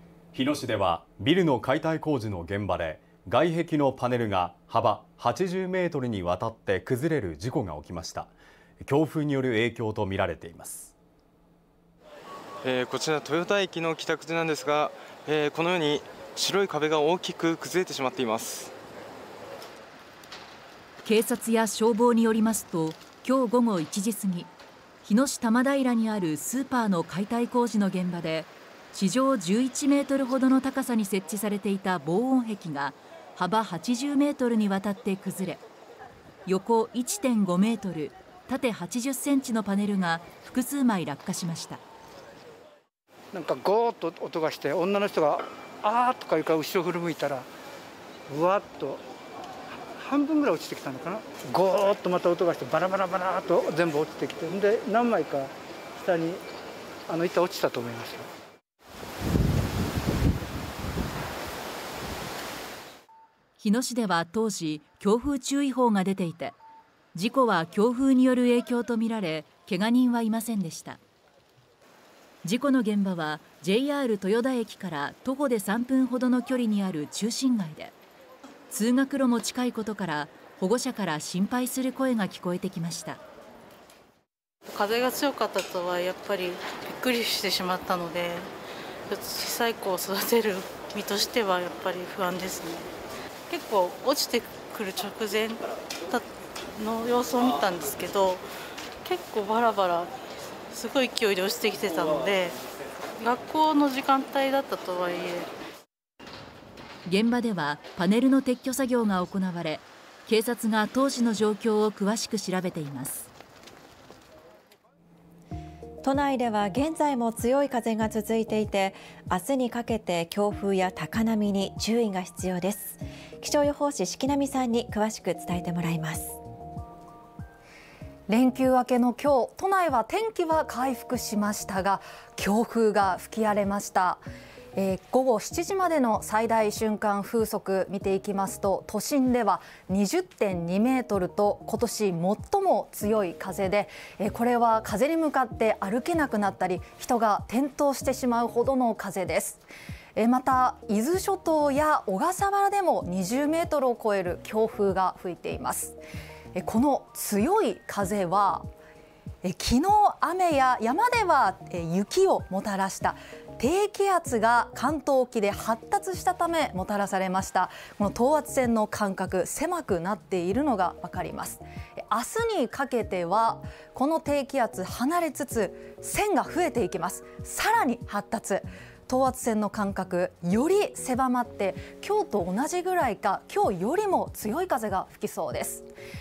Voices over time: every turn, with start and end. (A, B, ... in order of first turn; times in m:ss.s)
0:00.3-0:08.3 A
0:08.8-0:10.9 A
0:12.6-0:18.7 B
0:21.0-0:24.5 C
0:25.0-0:35.6 C
0:36.5-0:41.8 C
0:43.3-0:47.5 D
0:48.3-0:49.0 D
0:50.0-0:56.4 D
0:57.1-0:58.3 D
1:03.6-1:06.6 C
1:07.1-1:11.0 C
1:12.4-1:17.9 C
1:18.7-1:23.2 C
1:24.7-1:28.5 E
1:29.1-1:32.9 E
1:33.5-1:36.2 E
1:36.8-1:38.4 E
1:39.0-1:40.1 E
1:40.7-1:42.6 E
1:43.2-1:45.5 E
1:47.1-1:53.3 C
1:56.0-2:06.4 F
2:08.3-2:14.2 G
2:14.8-2:29.6 G
2:30.2-2:36.0 G
2:36.6-2:38.6 G
2:39.4-3:05.9 G